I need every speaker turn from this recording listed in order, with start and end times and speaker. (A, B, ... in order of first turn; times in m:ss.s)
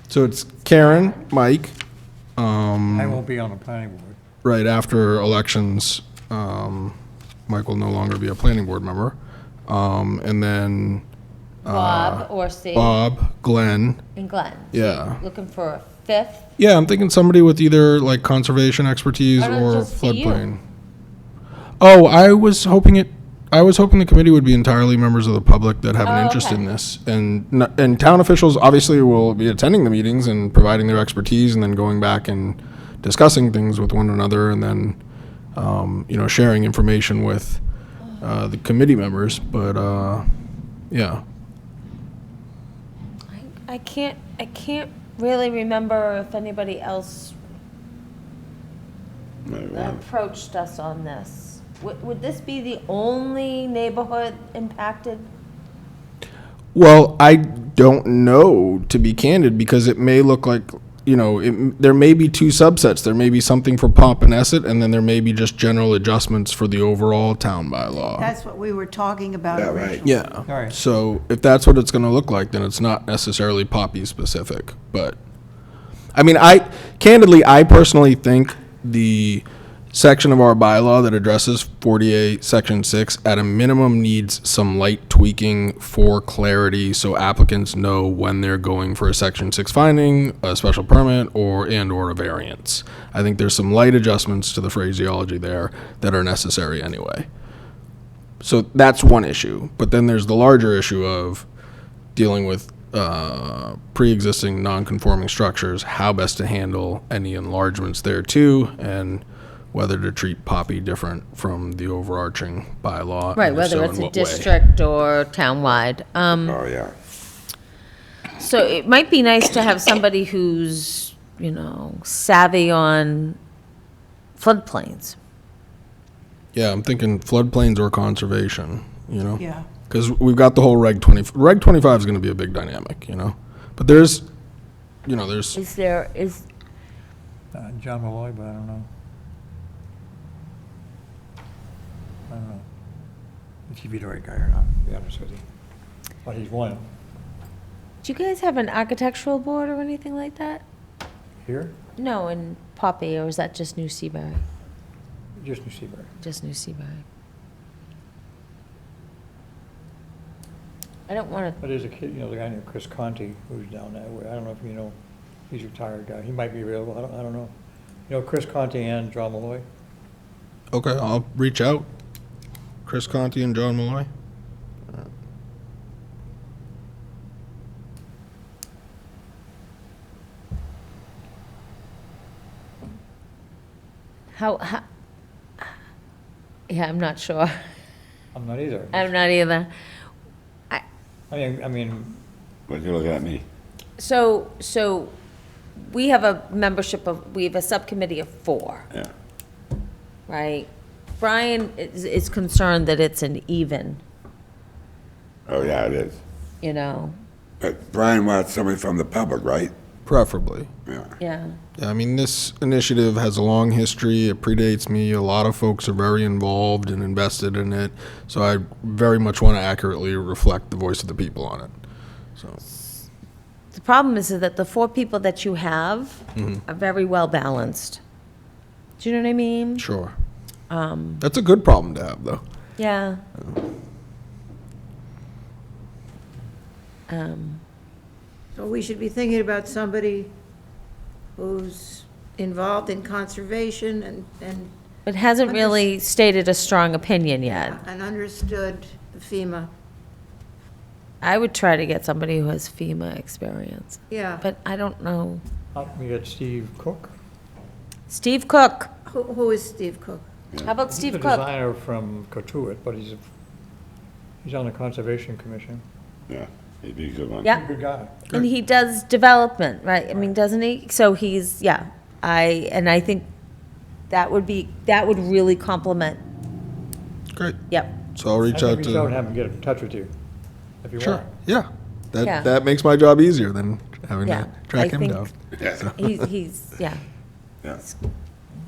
0:00.1-0:01.8 A
0:00.7-0:01.2 B
0:02.4-0:03.2 A
0:02.9-0:04.2 C
0:04.4-0:07.0 A
0:07.5-0:09.2 A
0:09.7-0:11.0 A
0:11.6-0:14.0 A
0:11.6-0:13.0 B
0:14.2-0:16.5 B
0:14.7-0:15.2 A
0:16.6-0:20.6 A
0:19.4-0:20.5 B
0:21.8-0:35.0 A
0:26.0-0:26.7 B
0:35.6-0:37.6 A
0:38.2-0:40.2 A
0:40.9-0:41.2 A
0:43.3-0:47.4 B
0:49.5-0:50.0 D
0:49.7-0:55.3 B
0:56.7-1:08.3 A
1:08.2-1:10.0 E
1:09.6-1:10.0 D
1:10.0-1:15.2 A
1:10.5-1:10.8 C
1:16.2-1:37.3 A
1:38.4-1:41.5 A
1:42.2-1:54.6 A
1:53.4-1:56.6 B
1:56.3-1:56.9 D
1:58.4-2:03.4 B
2:04.4-2:05.2 B
2:06.5-2:14.2 A
2:09.4-2:09.7 E
2:15.1-2:15.6 A
2:15.6-2:16.5 B
2:17.5-2:18.9 C
2:22.3-2:22.7 C
2:23.7-2:25.4 C
2:26.2-2:26.9 C
2:28.0-2:30.6 B
2:31.4-2:31.8 C
2:32.0-2:34.4 B
2:35.4-2:36.1 C
2:36.2-2:37.0 B
2:41.1-2:41.6 B
2:41.6-2:45.0 C
2:45.5-2:47.5 C
2:48.1-2:49.6 C
2:50.7-2:51.9 A
2:52.9-2:54.1 A
3:04.3-3:04.8 B
3:06.7-3:07.6 B
3:08.3-3:09.1 C
3:08.9-3:09.7 B
3:11.3-3:12.2 C
3:12.7-3:13.4 D
3:14.0-3:15.1 B
3:15.8-3:18.9 B
3:20.3-3:24.0 B
3:25.5-3:26.2 D
3:26.6-3:27.2 B
3:27.6-3:29.7 D
3:30.1-3:30.7 A
3:30.9-3:31.1 D
3:31.2-3:31.6 B
3:31.8-3:41.7 A
3:43.7-3:48.0 B
3:46.4-3:46.6 A
3:49.0-3:49.8 B
3:49.8-3:50.1 A
3:50.7-3:51.2 B
3:51.2-3:52.4 A
3:52.8-3:53.2 B
3:57.1-3:57.6 B
3:58.6-4:00.3 E
4:01.4-4:04.7 E
4:05.1-4:07.8 B
4:05.5-4:05.9 E
4:07.5-4:09.7 E
4:11.2-4:15.4 B
4:14.1-4:14.4 E
4:15.7-4:17.1 C
4:18.1-4:18.9 B
4:19.1-4:20.2 E
4:20.5-4:20.8 D
4:20.6-4:21.5 B
4:20.9-4:23.2 C
4:24.4-4:25.8 C
4:26.3-4:27.6 D
4:27.4-4:28.2 C
4:28.3-4:33.3 B
4:34.1-4:36.2 B
4:37.7-4:38.0 B
4:38.2-4:39.2 A
4:38.5-4:40.1 C
4:40.8-4:41.2 C
4:41.0-4:46.0 A
4:42.2-4:42.5 B
4:44.2-4:45.3 B
4:45.6-4:45.9 D
4:46.0-4:47.0 B